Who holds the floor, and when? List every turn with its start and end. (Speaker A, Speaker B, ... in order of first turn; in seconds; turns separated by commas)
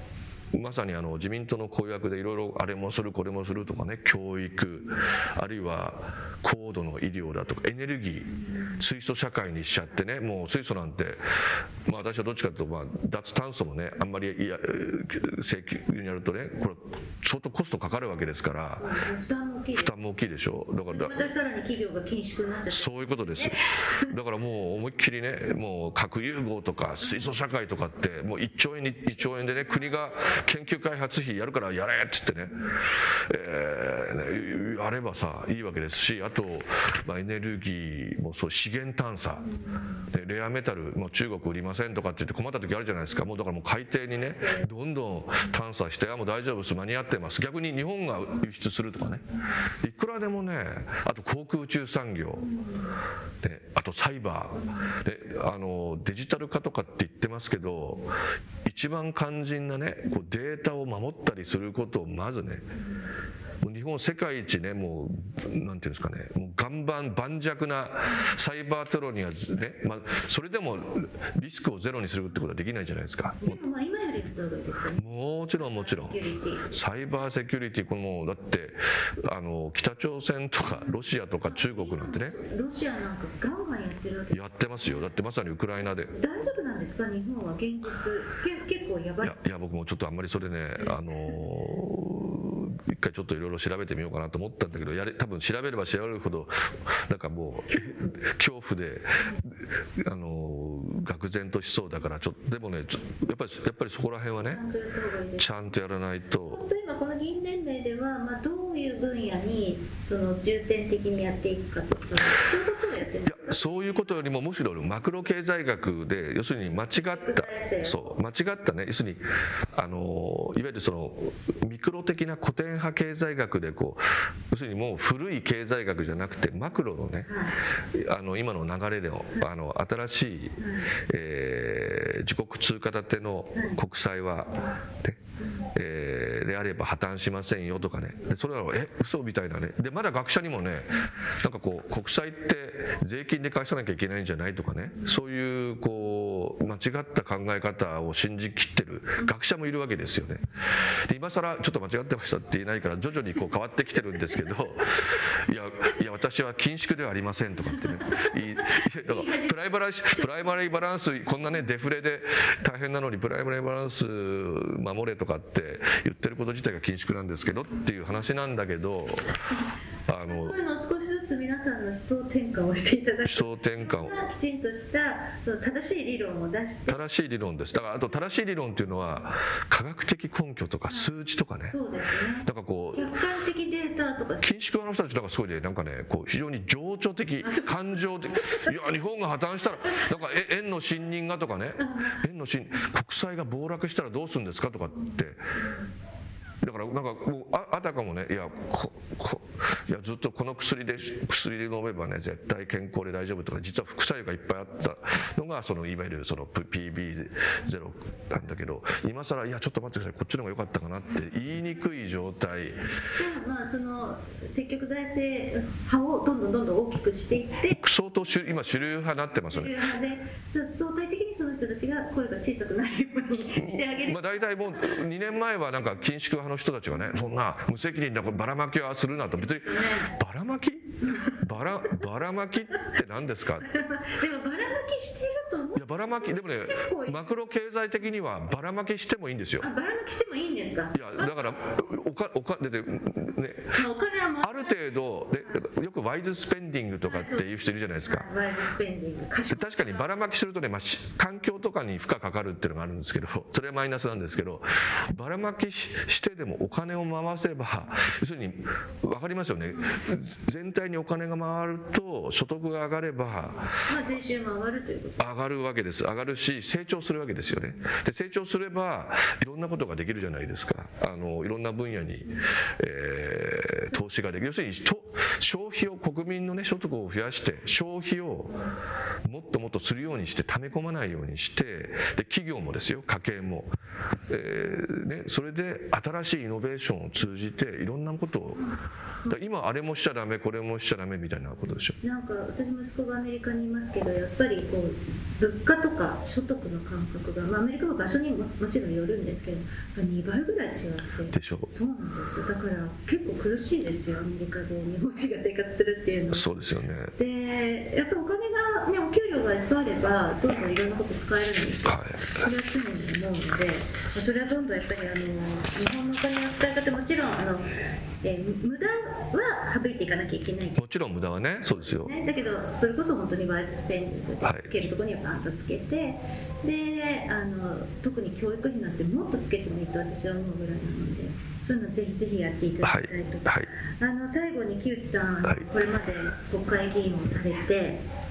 Speaker A: 0.5-18.9, Speaker B: 18.7-19.9, Speaker A: 19.8-21.2, Speaker B: 20.8-24.1, Speaker A: 22.7-39.5, Speaker A: 40.1-52.5, Speaker B: 44.4-44.6, Speaker B: 52.4-52.9, Speaker A: 53.4-62.6, Speaker B: 54.6-54.9, Speaker A: 63.6-73.6, Speaker B: 73.4-76.7, Speaker A: 75.0-82.4, Speaker B: 81.4-85.1, Speaker A: 84.3-86.1, Speaker B: 86.1-89.4, Speaker A: 89.2-104.6, Speaker B: 97.7-98.1, Speaker B: 104.5-105.6, Speaker A: 105.4-106.6, Speaker B: 106.4-113.6, Speaker A: 113.2-127.3, Speaker B: 116.7-118.1, Speaker B: 127.2-127.5, Speaker A: 127.9-135.2, Speaker B: 130.6-130.9, Speaker B: 133.5-133.8, Speaker A: 135.7-169.4, Speaker B: 158.1-159.6, Speaker B: 160.1-160.5, Speaker A: 170.1-170.5, Speaker B: 170.2-177.0, Speaker A: 173.2-174.1, Speaker A: 176.9-181.8, Speaker B: 181.7-184.5, Speaker A: 182.4-183.1, Speaker A: 184.4-195.4, Speaker B: 187.4-189.0, Speaker B: 191.8-192.2, Speaker A: 196.6-212.8, Speaker B: 213.0-217.8, Speaker A: 217.8-219.7, Speaker B: 219.4-225.0, Speaker A: 223.6-233.7, Speaker B: 229.4-230.1, Speaker B: 231.0-232.0, Speaker B: 233.6-237.3, Speaker A: 235.8-239.7, Speaker B: 239.6-241.5, Speaker A: 240.9-243.8, Speaker B: 243.7-244.8, Speaker A: 244.4-248.3, Speaker B: 247.0-250.2, Speaker A: 249.5-263.8, Speaker B: 263.7-265.2, Speaker A: 265.2-278.6, Speaker A: 279.2-283.7, Speaker A: 284.3-288.7, Speaker A: 289.3-291.9, Speaker B: 292.0-306.5, Speaker A: 301.3-301.7, Speaker A: 306.3-307.1, Speaker B: 307.1-317.7, Speaker A: 311.8-312.3, Speaker B: 318.2-320.8, Speaker A: 320.8-322.1, Speaker B: 321.7-338.0, Speaker A: 332.8-333.7